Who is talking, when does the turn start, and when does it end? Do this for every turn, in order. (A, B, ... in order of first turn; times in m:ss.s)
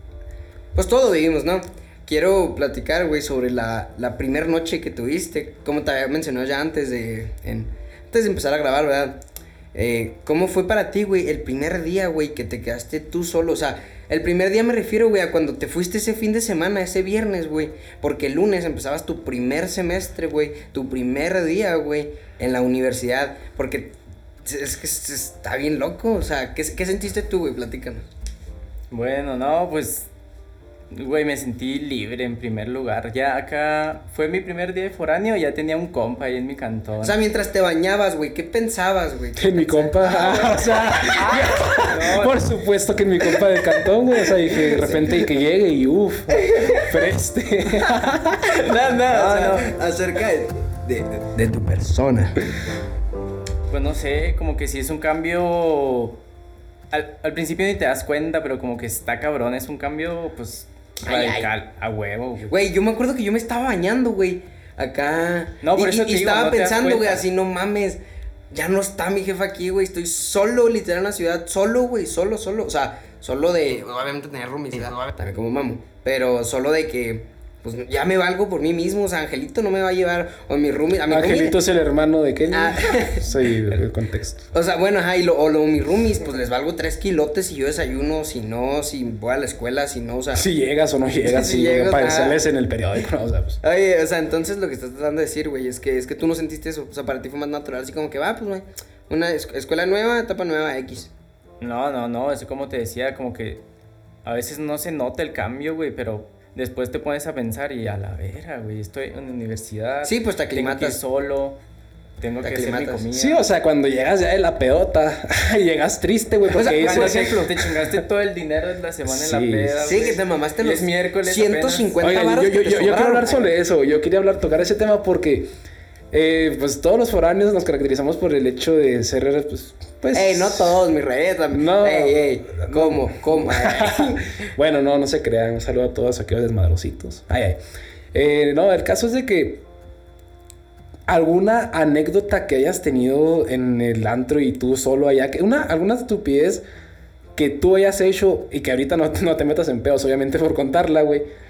0:00.7-0:09.2 A
0:09.7-0:23.9 A
0:24.4-0:28.1 A
0:28.9-0:30.1 B
0:30.9-0:37.2 B
0:37.0-0:41.8 A
0:39.4-0:48.6 C
0:41.1-0:42.4 B
0:44.5-0:45.3 A
0:46.3-0:47.0 A
0:48.4-0:52.4 A
0:49.1-0:49.8 B
0:53.7-0:56.2 B
0:56.9-1:02.5 B
1:01.0-1:01.5 A
1:02.5-1:08.0 A
1:05.6-1:07.2 B
1:08.5-1:21.6 A
1:21.1-1:24.5 C
1:22.5-1:23.3 A
1:24.5-1:30.4 A
1:30.3-1:33.6 C
1:31.2-1:32.4 A
1:33.6-1:41.1 A
1:41.6-1:43.6 B
1:44.2-1:51.6 B
1:50.0-1:51.0 A
1:52.2-1:53.4 B
1:52.4-1:53.0 A
1:53.1-1:58.0 C
1:56.5-1:57.6 A
1:56.6-2:01.9 B
1:59.1-2:00.1 C
1:59.8-2:03.5 A
2:02.0-2:05.5 C
2:06.1-2:10.8 C
2:10.1-2:14.3 A
2:11.5-2:17.6 C
2:18.1-2:19.6 C
2:21.1-2:26.6 C
2:27.3-2:31.2 C